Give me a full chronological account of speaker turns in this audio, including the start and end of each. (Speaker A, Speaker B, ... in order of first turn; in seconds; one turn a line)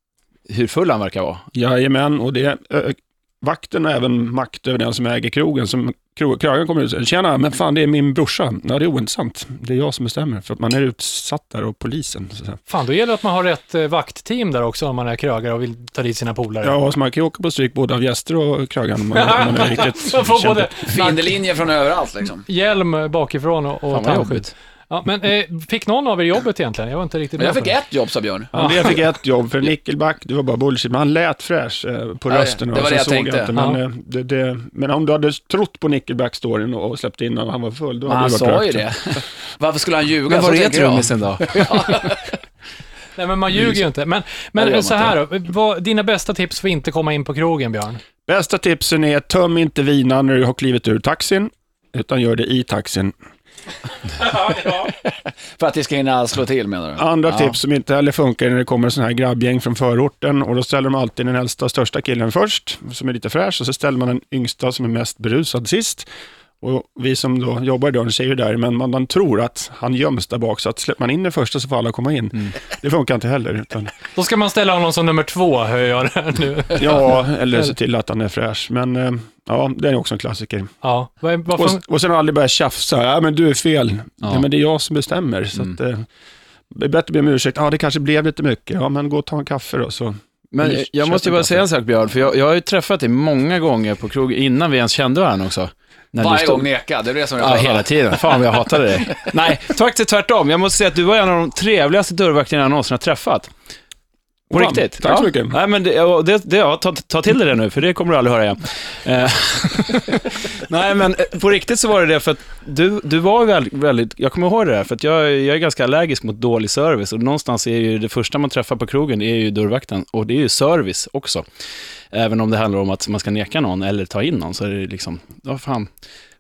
Speaker A: 0.5-1.4
Speaker B: 1.5-12.6
Speaker C: 12.7-16.8
Speaker B: 16.6-20.9
Speaker C: 19.1-21.4
Speaker D: 20.9-22.4
Speaker C: 22.5-27.8
Speaker A: 23.9-24.5
Speaker D: 27.4-28.5
Speaker B: 28.5-39.2
Speaker C: 28.5-28.9
Speaker D: 32.3-33.5
Speaker D: 38.1-42.3
Speaker A: 40.3-42.1
Speaker C: 43.2-48.0
Speaker D: 44.6-45.2
Speaker B: 48.3-53.1
Speaker C: 54.2-54.9
Speaker D: 54.9-57.5
Speaker B: 57.0-66.1
Speaker B: 66.6-73.9
Speaker C: 74.2-77.7
Speaker B: 76.8-80.7
Speaker C: 80.8-81.8
Speaker B: 81.5-86.1
Speaker B: 86.7-91.7
Speaker A: 90.5-96.7
Speaker D: 96.2-99.6
Speaker A: 97.4-103.5
Speaker B: 104.5-105.6
Speaker A: 104.5-121.5
Speaker A: 122.1-125.9